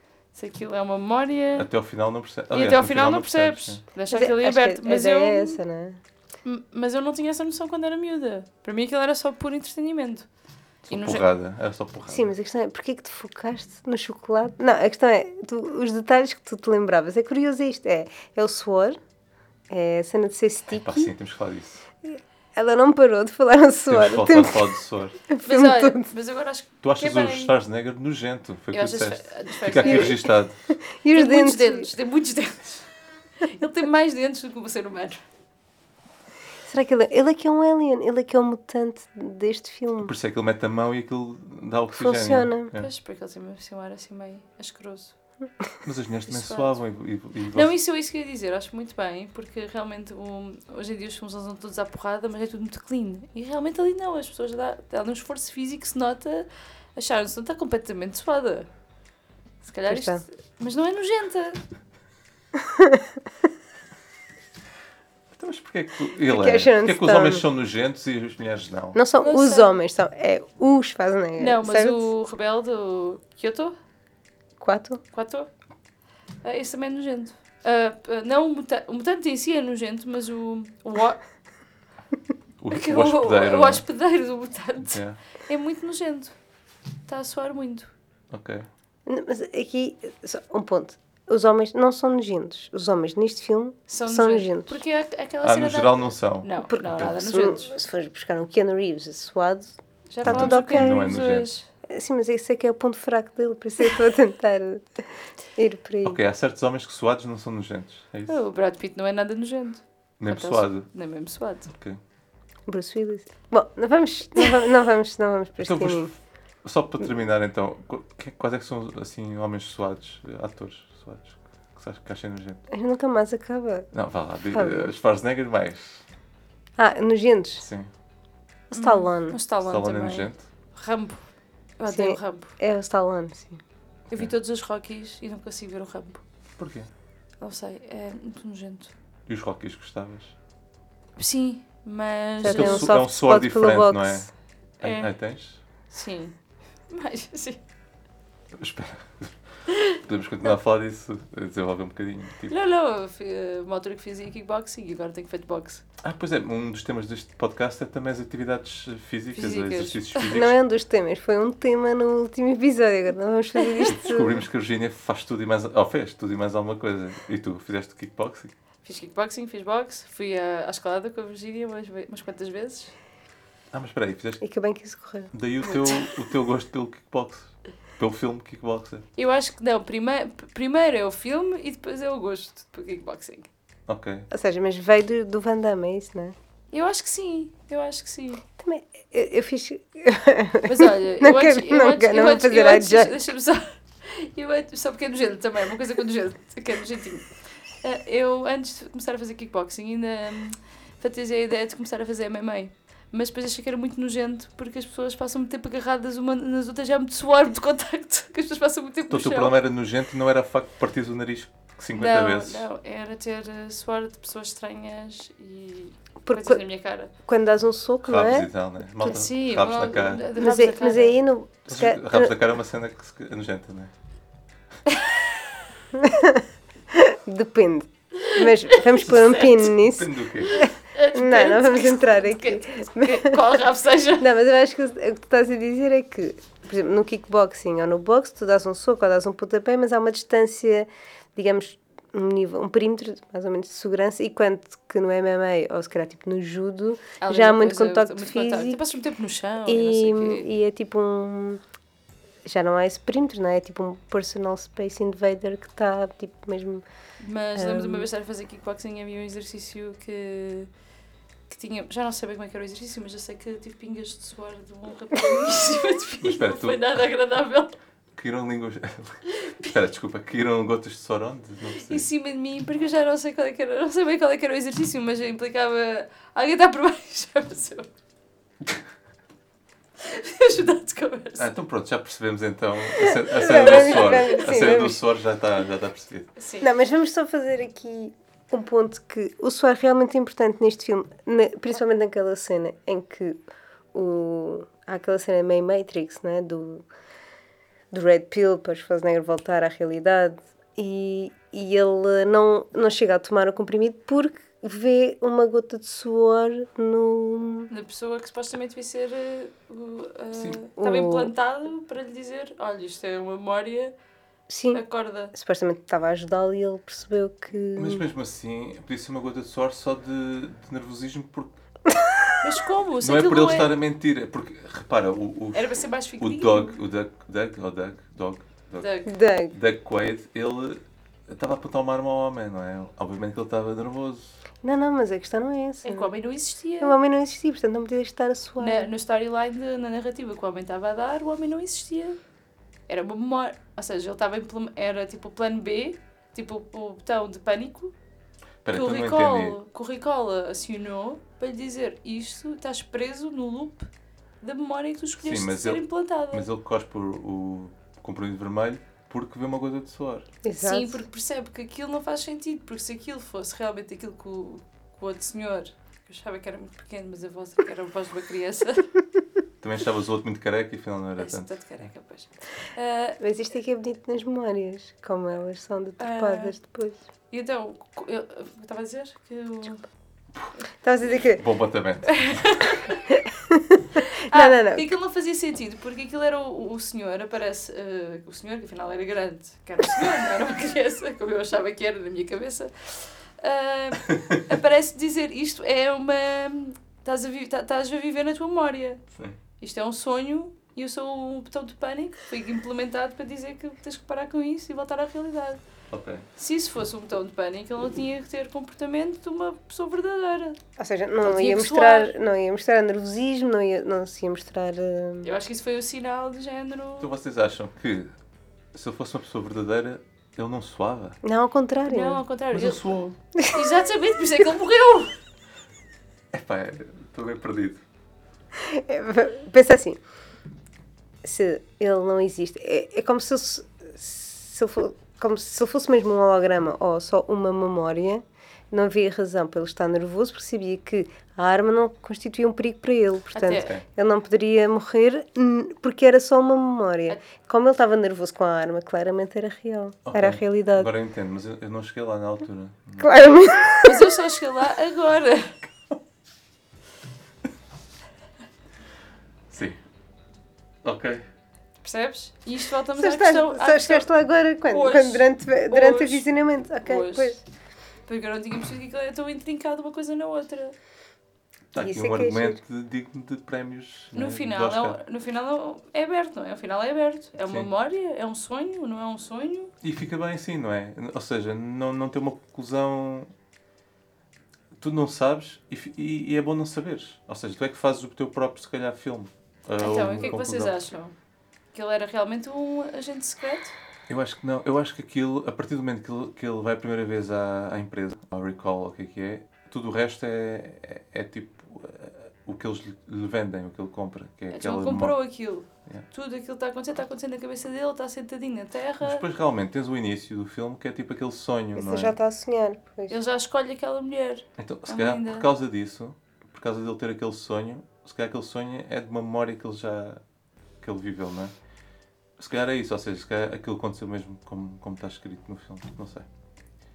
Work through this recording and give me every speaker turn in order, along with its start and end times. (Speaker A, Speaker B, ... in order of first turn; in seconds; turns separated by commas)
Speaker A: 0.3-1.7, Speaker B: 1.6-3.8, Speaker A: 2.5-5.6, Speaker C: 4.1-6.0, Speaker A: 6.4-10.3, Speaker A: 10.9-11.2, Speaker B: 10.9-12.3, Speaker C: 12.1-19.0, Speaker C: 19.7-21.1, Speaker B: 20.7-21.8, Speaker C: 22.1-24.7, Speaker B: 23.9-25.2, Speaker C: 25.3-26.1, Speaker A: 25.4-27.5, Speaker B: 26.8-30.6, Speaker A: 28.7-30.2, Speaker C: 29.8-31.9, Speaker A: 31.1-32.9, Speaker A: 33.4-35.2, Speaker C: 36.6-40.1, Speaker B: 40.0-42.9, Speaker C: 41.9-42.7, Speaker A: 42.7-45.1, Speaker B: 45.8-47.7, Speaker A: 46.3-46.7, Speaker A: 47.5-58.7, Speaker A: 59.6-61.6, Speaker C: 59.9-60.2, Speaker C: 62.6-63.1, Speaker B: 65.3-69.0, Speaker C: 66.3-67.5, Speaker C: 68.9-72.1, Speaker A: 69.2-69.8, Speaker A: 71.4-73.8, Speaker C: 74.6-75.0, Speaker A: 75.1-75.5, Speaker A: 76.4-81.2, Speaker B: 82.6-83.8, Speaker A: 82.7-86.3, Speaker B: 84.8-85.2, Speaker A: 87.1-87.9, Speaker B: 88.3-88.7, Speaker C: 89.0-94.8, Speaker A: 93.9-97.7, Speaker B: 95.4-97.1, Speaker C: 96.7-101.0, Speaker A: 100.1-101.7, Speaker B: 100.2-101.5, Speaker C: 101.9-106.2, Speaker B: 106.0-108.4, Speaker A: 108.3-111.7, Speaker B: 110.2-110.9, Speaker B: 111.7-112.0, Speaker C: 112.7-116.1, Speaker B: 115.6-122.6, Speaker C: 122.7-123.9, Speaker B: 123.9-126.0, Speaker C: 124.5-124.9, Speaker C: 126.8-127.7, Speaker B: 127.6-127.9, Speaker C: 128.7-129.4, Speaker A: 128.7-132.6, Speaker B: 129.6-130.4, Speaker C: 131.9-133.6, Speaker A: 134.1-136.2, Speaker B: 136.6-136.9, Speaker A: 137.4-138.9, Speaker B: 139.3-140.3, Speaker A: 141.2-142.9, Speaker C: 142.4-144.3, Speaker B: 142.4-145.6, Speaker A: 144.8-145.1, Speaker A: 145.9-146.4, Speaker A: 146.9-147.6, Speaker B: 148.5-149.3, Speaker B: 149.9-152.6, Speaker A: 152.5-155.8, Speaker B: 156.0-160.6, Speaker A: 159.3-160.2, Speaker C: 160.3-164.4, Speaker B: 163.9-168.5, Speaker A: 168.8-172.9, Speaker B: 173.7-174.4, Speaker C: 174.4-175.3, Speaker B: 175.3-179.1, Speaker A: 175.7-176.0, Speaker A: 179.2-183.5, Speaker B: 183.9-184.3, Speaker C: 184.3-186.3, Speaker A: 186.7-188.4, Speaker C: 188.6-193.2, Speaker A: 190.6-197.3, Speaker A: 197.8-209.6, Speaker B: 209.1-212.7, Speaker A: 211.9-217.1, Speaker C: 216.2-216.6, Speaker C: 217.2-218.5, Speaker B: 218.0-220.3, Speaker A: 219.0-221.2, Speaker C: 220.3-222.3, Speaker B: 221.7-223.9, Speaker C: 225.9-233.4, Speaker A: 228.2-229.5, Speaker B: 229.8-230.5, Speaker A: 230.4-234.3, Speaker C: 234.2-248.8, Speaker A: 247.2-250.5, Speaker C: 249.7-251.6, Speaker C: 252.4-256.8, Speaker A: 257.2-260.7, Speaker C: 257.5-258.1, Speaker A: 261.5-267.7, Speaker B: 266.2-266.8, Speaker B: 268.1-272.1, Speaker A: 269.4-269.7, Speaker A: 271.8-277.9, Speaker A: 280.0-281.5, Speaker B: 281.4-286.3, Speaker C: 283.0-285.0, Speaker A: 283.5-284.3, Speaker A: 286.4-286.7, Speaker C: 286.6-293.4, Speaker C: 293.9-296.9, Speaker C: 297.9-307.7, Speaker A: 307.7-313.9, Speaker B: 310.3-310.6, Speaker C: 310.8-311.3, Speaker C: 314.5-318.0, Speaker A: 314.7-315.3, Speaker B: 317.7-321.5, Speaker C: 321.9-322.3, Speaker A: 322.4-323.7, Speaker B: 323.0-328.9, Speaker A: 325.5-326.8, Speaker A: 328.8-329.1, Speaker C: 329.1-329.5, Speaker B: 329.5-334.4, Speaker C: 334.6-336.1, Speaker A: 335.8-337.0, Speaker C: 336.8-338.9, Speaker A: 338.6-342.2, Speaker A: 342.9-347.9, Speaker B: 348.6-349.6, Speaker A: 348.7-353.9, Speaker A: 354.4-356.4, Speaker B: 355.2-360.3, Speaker C: 360.4-361.0, Speaker A: 360.6-368.9, Speaker B: 369.6-371.6, Speaker A: 371.2-373.2, Speaker C: 373.2-377.0, Speaker A: 376.0-376.5, Speaker A: 377.3-379.8, Speaker C: 380.8-381.4, Speaker B: 381.3-382.3, Speaker A: 382.1-383.0, Speaker C: 383.1-384.9, Speaker A: 384.3-399.0, Speaker A: 399.6-405.6, Speaker B: 405.9-406.2, Speaker A: 406.4-410.6, Speaker C: 410.8-415.3, Speaker A: 411.2-412.1, Speaker A: 415.2-417.1, Speaker B: 417.0-418.1, Speaker B: 418.7-421.2, Speaker C: 421.2-422.2, Speaker A: 421.9-422.9, Speaker B: 422.5-423.2, Speaker A: 423.5-425.1, Speaker B: 426.3-427.8, Speaker C: 428.5-430.0, Speaker C: 431.2-450.9, Speaker A: 443.3-443.7, Speaker B: 443.5-443.8, Speaker B: 450.0-453.2, Speaker C: 453.0-454.1, Speaker A: 453.8-455.5, Speaker B: 459.5-459.8, Speaker B: 460.8-461.2, Speaker A: 461.8-464.1, Speaker C: 463.0-467.4, Speaker A: 464.7-466.3, Speaker A: 466.8-467.4, Speaker A: 468.1-470.7, Speaker B: 471.7-475.0, Speaker C: 471.8-472.6, Speaker A: 474.1-479.7, Speaker B: 479.8-483.3, Speaker B: 484.8-490.8, Speaker A: 489.8-491.1, Speaker A: 491.7-493.7, Speaker B: 494.1-505.1, Speaker A: 504.5-509.2, Speaker B: 509.0-512.2, Speaker C: 511.7-513.2, Speaker A: 513.1-515.5, Speaker B: 514.6-520.2, Speaker B: 520.8-521.5, Speaker B: 522.4-526.3